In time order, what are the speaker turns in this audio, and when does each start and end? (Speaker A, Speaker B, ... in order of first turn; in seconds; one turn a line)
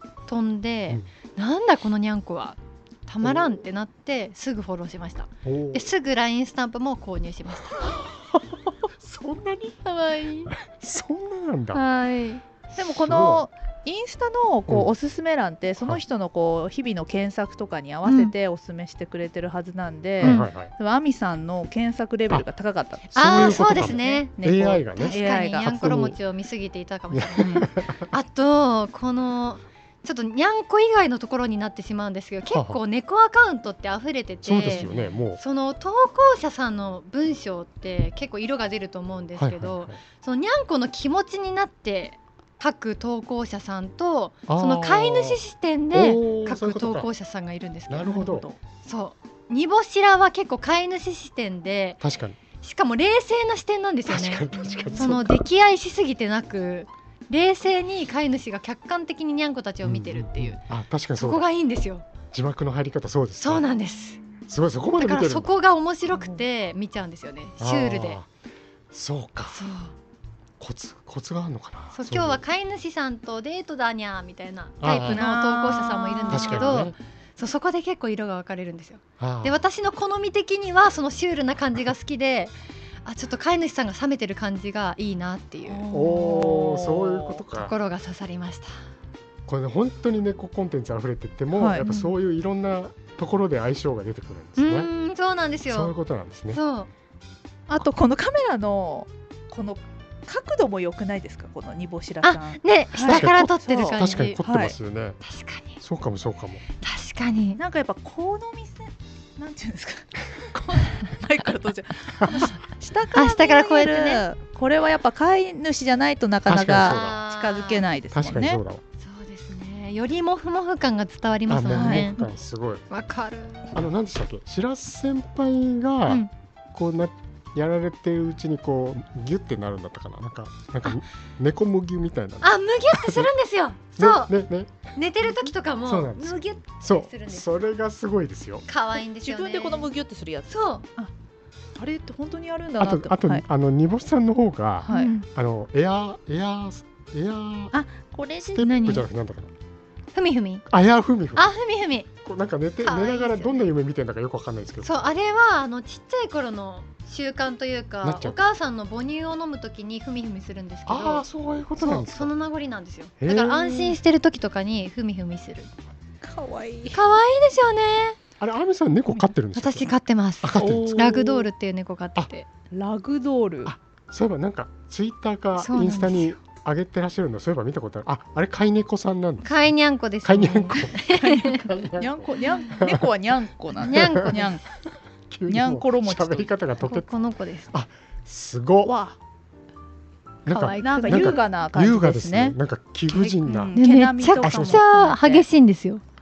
Speaker A: 0.3-7.8
Speaker B: 3.2-3.6
Speaker B: 5.4-5.9
Speaker B: 7.8-8.4
Speaker B: 9.0-9.8
Speaker A: 9.8-10.5
Speaker B: 10.6-11.8
Speaker A: 11.7-12.4
Speaker B: 12.7-13.5
Speaker C: 12.8-25.7
Speaker A: 18.1-18.3
Speaker B: 20.2-20.7
Speaker A: 20.2-20.5
Speaker A: 23.1-24.4
Speaker B: 23.1-26.2
Speaker A: 24.9-48.2
Speaker B: 27.1-28.1
Speaker C: 27.4-27.7
Speaker B: 34.4-35.4
Speaker C: 34.8-35.1
Speaker B: 39.4-40.0
Speaker B: 44.5-45.4
Speaker B: 45.9-47.1
Speaker B: 47.9-48.5
Speaker C: 48.1-48.6
Speaker A: 48.8-52.0
Speaker B: 52.0-52.4
Speaker A: 52.6-60.6
Speaker B: 54.1-55.4
Speaker B: 59.8-61.5
Speaker A: 61.2-62.1
Speaker B: 62.3-63.7
Speaker A: 63.4-64.2
Speaker B: 64.5-65.5
Speaker A: 65.0-68.2
Speaker C: 66.1-66.4
Speaker B: 67.6-68.3
Speaker B: 68.9-69.6
Speaker A: 69.5-69.9
Speaker B: 70.6-72.4
Speaker A: 71.9-82.5
Speaker B: 74.8-75.3
Speaker C: 75.0-76.8
Speaker B: 76.3-77.0
Speaker B: 79.2-79.6
Speaker A: 83.1-85.8
Speaker C: 85.7-87.4
Speaker B: 85.9-87.7
Speaker A: 87.5-88.7
Speaker B: 89.5-94.9
Speaker C: 91.5-91.8
Speaker A: 91.8-92.2
Speaker A: 94.6-95.9
Speaker B: 95.7-96.6
Speaker A: 96.5-96.9
Speaker C: 97.7-104.8
Speaker A: 102.2-104.4
Speaker B: 103.0-105.2
Speaker A: 105.2-105.8
Speaker B: 105.8-106.6
Speaker A: 106.8-107.6
Speaker C: 107.6-118.6
Speaker B: 112.2-112.5
Speaker A: 113.1-114.2
Speaker B: 116.5-117.2
Speaker A: 116.8-117.9
Speaker B: 118.1-118.8
Speaker A: 119.0-122.2
Speaker B: 121.5-122.8
Speaker C: 121.7-122.3
Speaker A: 122.9-123.8
Speaker B: 123.7-133.3
Speaker A: 132.4-134.3
Speaker B: 134.0-134.9
Speaker A: 134.9-137.5
Speaker B: 135.8-138.7
Speaker A: 138.7-139.9
Speaker C: 139.2-141.1
Speaker A: 140.5-140.9
Speaker C: 141.8-143.4
Speaker B: 142.8-147.8
Speaker C: 144.9-145.2
Speaker A: 144.9-145.2
Speaker C: 147.7-148.7
Speaker B: 148.4-149.5
Speaker A: 148.6-149.1
Speaker A: 150.2-150.7
Speaker B: 150.7-151.5
Speaker A: 151.3-152.1
Speaker B: 152.2-155.1
Speaker A: 152.8-153.7
Speaker A: 154.8-165.7
Speaker B: 158.0-158.4
Speaker B: 160.9-162.3
Speaker B: 163.2-164.0
Speaker C: 166.2-167.0
Speaker A: 166.9-168.2
Speaker B: 168.4-169.9
Speaker A: 169.6-172.5
Speaker B: 170.4-171.4
Speaker C: 170.6-171.3
Speaker C: 172.7-173.7
Speaker B: 173.7-179.6
Speaker A: 175.6-176.3
Speaker A: 179.4-181.7
Speaker B: 180.2-183.1
Speaker C: 181.1-184.6
Speaker A: 183.8-184.5
Speaker B: 183.8-184.5
Speaker B: 185.3-187.1
Speaker C: 185.5-186.5
Speaker A: 186.8-187.7
Speaker B: 187.7-188.9
Speaker C: 188.8-189.2
Speaker B: 190.5-193.8
Speaker A: 190.5-191.4
Speaker C: 190.8-192.6
Speaker A: 193.1-196.0
Speaker C: 193.5-195.5
Speaker B: 194.4-194.8